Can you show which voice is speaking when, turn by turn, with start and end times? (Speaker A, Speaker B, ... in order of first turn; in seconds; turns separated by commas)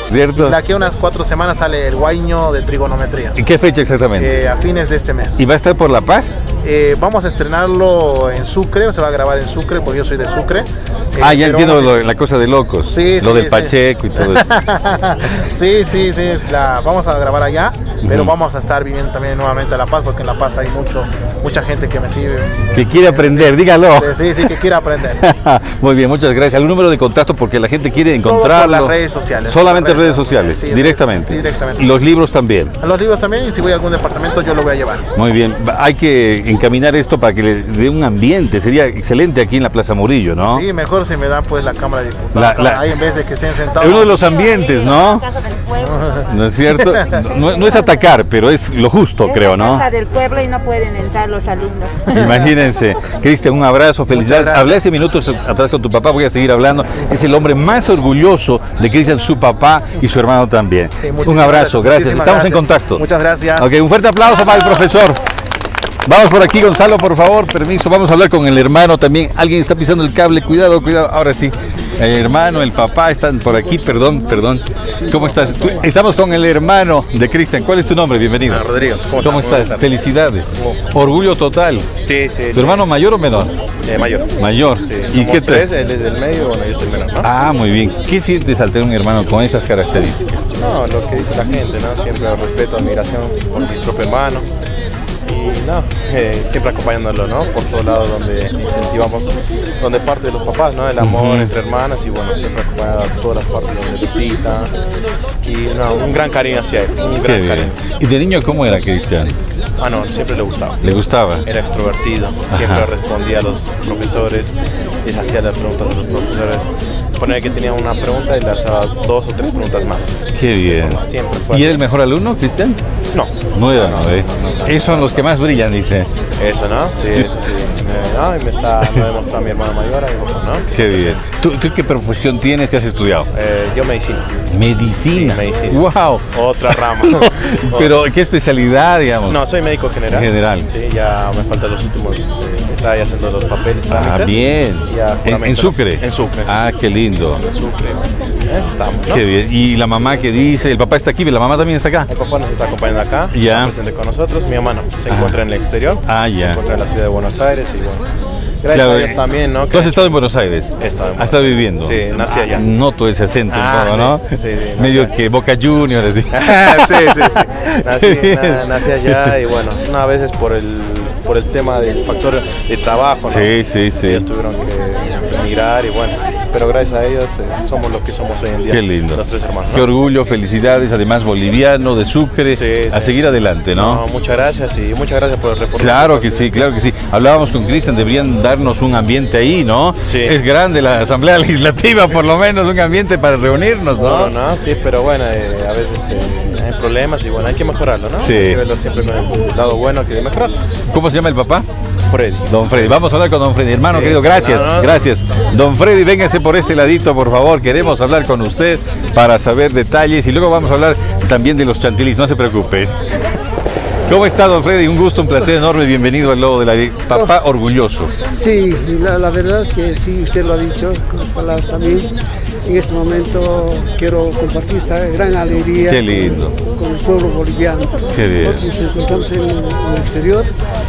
Speaker A: 0.1-0.6, Speaker B: 0.4-3.4, Speaker A: 3.4-4.3, Speaker B: 4.2-5.5, Speaker A: 5.4-6.4, Speaker B: 6.6-12.1, Speaker A: 11.2-14.4, Speaker B: 12.9-25.2, Speaker A: 18.0-18.3, Speaker A: 22.7-24.5, Speaker A: 25.2-32.8, Speaker B: 28.2-31.9, Speaker B: 32.8-35.1, Speaker A: 35.2-40.7, Speaker B: 40.5-44.2, Speaker A: 42.4-43.0, Speaker A: 43.8-45.3, Speaker C: 44.6-45.6, Speaker B: 45.8-47.1, Speaker A: 46.3-49.9, Speaker C: 49.3-52.0, Speaker A: 52.1-63.0, Speaker B: 54.1-54.8, Speaker B: 61.0-63.7, Speaker A: 63.6-65.2, Speaker A: 66.1-81.9, Speaker D: 75.0-75.9, Speaker E: 78.5-79.9, Speaker E: 80.5-80.8, Speaker E: 82.0-82.9, Speaker A: 82.5-83.6, Speaker E: 83.8-87.3, Speaker A: 84.4-85.7, Speaker A: 87.2-90.5, Speaker E: 90.6-94.5, Speaker E: 95.2-104.8, Speaker A: 101.0-101.5, Speaker E: 105.4-107.8, Speaker A: 107.2-109.4, Speaker E: 109.8-110.9, Speaker A: 110.8-111.5, Speaker E: 111.5-121.8, Speaker A: 112.5-112.9, Speaker A: 120.3-121.0, Speaker A: 121.5-122.8, Speaker E: 123.1-125.3, Speaker A: 123.5-126.1, Speaker E: 126.4-131.2, Speaker A: 130.7-133.3, Speaker E: 133.3-134.5, Speaker A: 134.5-139.4, Speaker E: 135.1-138.0, Speaker E: 139.3-146.6, Speaker A: 140.1-140.7, Speaker A: 143.9-147.4, Speaker E: 147.4-149.2, Speaker A: 149.1-152.1, Speaker E: 152.1-158.1, Speaker A: 153.3-153.7, Speaker A: 155.1-155.4, Speaker A: 156.1-156.6, Speaker E: 158.6-160.2, Speaker A: 158.7-169.3, Speaker E: 160.8-162.7, Speaker E: 163.5-165.1, Speaker E: 166.3-179.9, Speaker A: 173.3-174.2, Speaker A: 178.7-179.2, Speaker A: 179.7-184.0, Speaker E: 182.5-183.2, Speaker E: 183.7-186.7, Speaker A: 185.8-194.3, Speaker E: 190.0-190.4, Speaker E: 193.9-200.5, Speaker A: 198.2-198.6, Speaker A: 200.9-201.7, Speaker E: 202.1-203.0, Speaker A: 202.5-213.0, Speaker E: 203.9-205.2, Speaker A: 214.1-218.1, Speaker D: 218.3-230.5, Speaker A: 225.8-226.6, Speaker A: 228.1-228.6